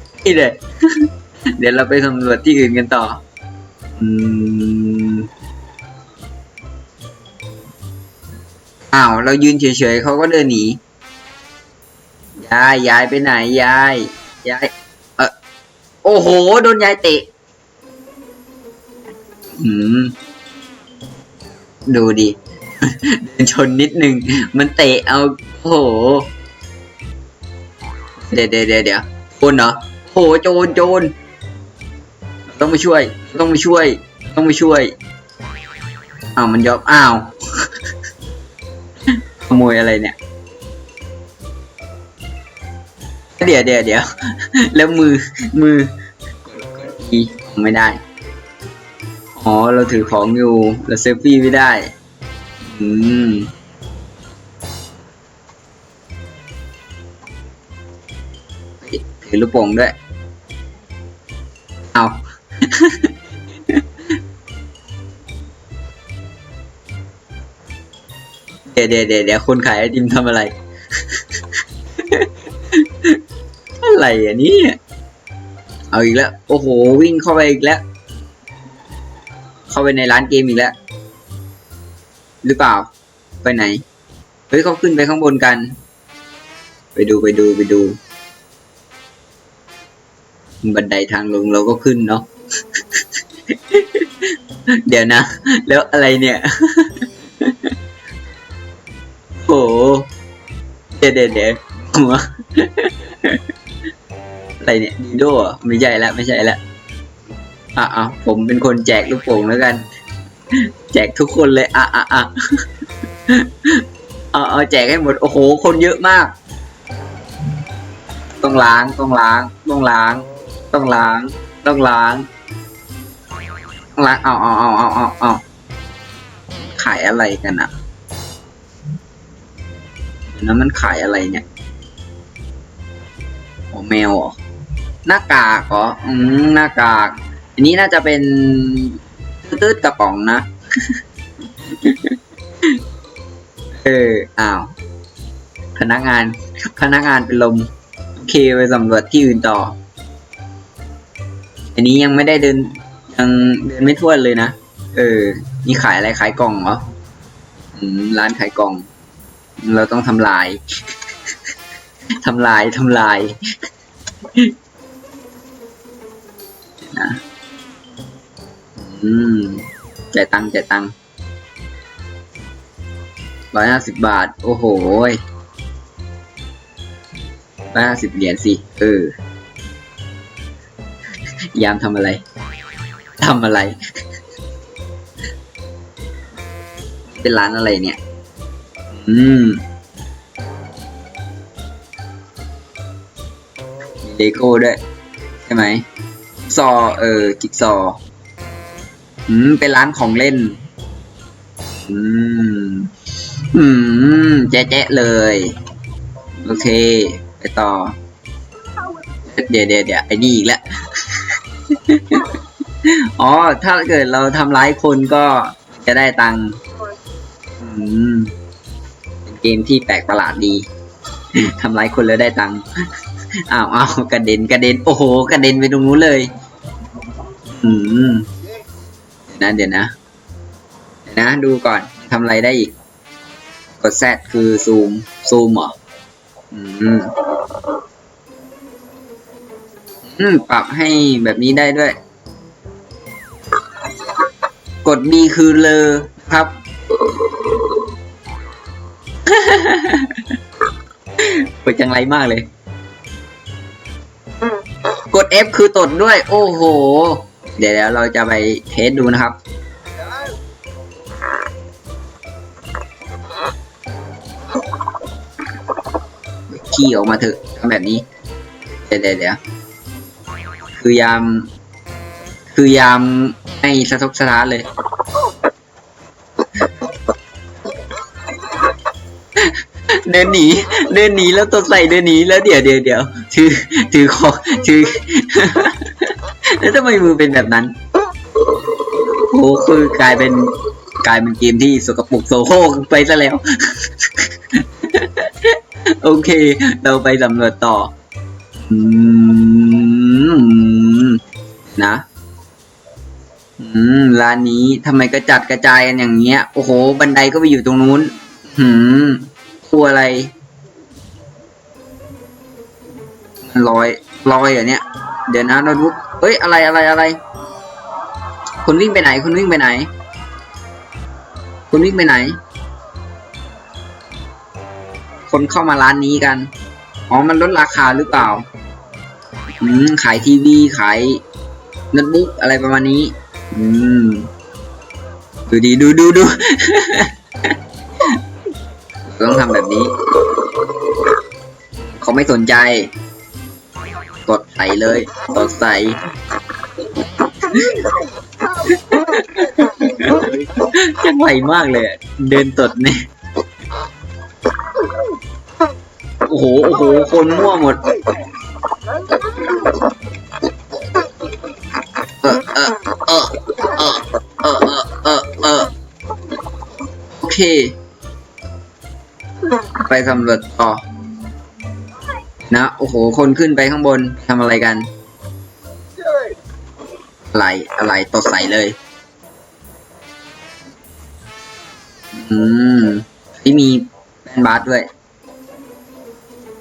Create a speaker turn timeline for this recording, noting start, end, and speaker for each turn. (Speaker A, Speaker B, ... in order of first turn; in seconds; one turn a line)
Speaker A: 0.2-3.2
Speaker A: 4.0-5.3
Speaker A: 8.9-10.8
Speaker A: 12.4-15.3
Speaker A: 16.0-17.2
Speaker A: 19.6-20.1
Speaker A: 21.9-26.3
Speaker A: 28.2-31.1
Speaker A: 32.5-34.9
Speaker A: 36.3-37.7
Speaker A: 39.1-40.1
Speaker A: 43.4-45.9
Speaker A: 46.4-48.0
Speaker A: 49.4-51.9
Speaker A: 52.6-53.5
Speaker A: 58.8-59.9
Speaker A: 61.9-63.8
Speaker A: 68.7-73.2
Speaker A: 73.8-74.8
Speaker A: 75.9-77.8
Speaker A: 79.7-80.7
Speaker A: 82.4-82.9
Speaker A: 83.4-83.8
Speaker A: 84.5-85.8
Speaker A: 86.9-88.0
Speaker A: 90.6-94.3
Speaker A: 94.8-97.7
Speaker A: 99.4-100.1
Speaker A: 101.0-103.4
Speaker A: 104.6-106.6
Speaker A: 107.8-109.8
Speaker A: 110.5-112.3
Speaker A: 113.3-116.3
Speaker A: 118.4-122.2
Speaker A: 123.9-125.4
Speaker A: 126.6-127.7
Speaker A: 130.3-131.4
Speaker A: 133.7-134.4
Speaker A: 135.0-141.0
Speaker A: 141.6-142.8
Speaker A: 143.8-144.7
Speaker A: 145.8-149.8
Speaker A: 151.7-156.8
Speaker A: 157.8-158.8
Speaker A: 159.6-160.6
Speaker A: 162.2-163.6
Speaker A: 166.8-167.2
Speaker A: 168.8-170.9
Speaker A: 173.5-175.2
Speaker A: 177.7-179.1
Speaker A: 181.5-182.2
Speaker A: 183.2-183.8
Speaker A: 187.1-188.0
Speaker A: 188.9-189.6
Speaker A: 194.0-194.8
Speaker A: 195.4-195.8
Speaker A: 196.4-198.0
Speaker A: 199.3-200.6
Speaker A: 201.7-202.9
Speaker A: 203.5-205.6
Speaker A: 206.4-207.9
Speaker A: 209.2-216.6
Speaker A: 217.6-218.3
Speaker A: 219.2-220.7
Speaker A: 221.3-222.7
Speaker A: 223.5-226.3
Speaker A: 227.4-228.3
Speaker A: 229.3-229.9
Speaker A: 231.1-232.7
Speaker A: 233.8-235.7
Speaker A: 236.5-237.1
Speaker A: 240.1-241.9
Speaker A: 244.8-247.8
Speaker A: 249.2-250.3
Speaker A: 251.2-252.5
Speaker A: 255.1-259.4
Speaker A: 266.5-268.0
Speaker A: 268.9-269.4
Speaker A: 270.8-271.5
Speaker A: 272.5-274.7
Speaker A: 279.4-287.7
Speaker A: 288.9-297.9
Speaker A: 298.6-301.2
Speaker A: 301.7-302.0
Speaker A: 303.6-310.3
Speaker A: 313.4-317.2
Speaker A: 318.6-319.9
Speaker A: 321.7-322.4
Speaker A: 325.3-326.5
Speaker A: 327.1-328.4
Speaker A: 329.6-331.2
Speaker A: 331.9-334.3
Speaker A: 335.5-338.2
Speaker A: 339.1-340.9
Speaker A: 341.9-342.9
Speaker A: 344.2-346.0
Speaker A: 347.2-347.9
Speaker A: 348.4-353.0
Speaker A: 356.2-357.9
Speaker A: 362.2-365.7
Speaker A: 367.1-367.8
Speaker A: 369.7-370.8
Speaker A: 372.5-374.9
Speaker A: 377.3-378.8
Speaker A: 382.1-384.9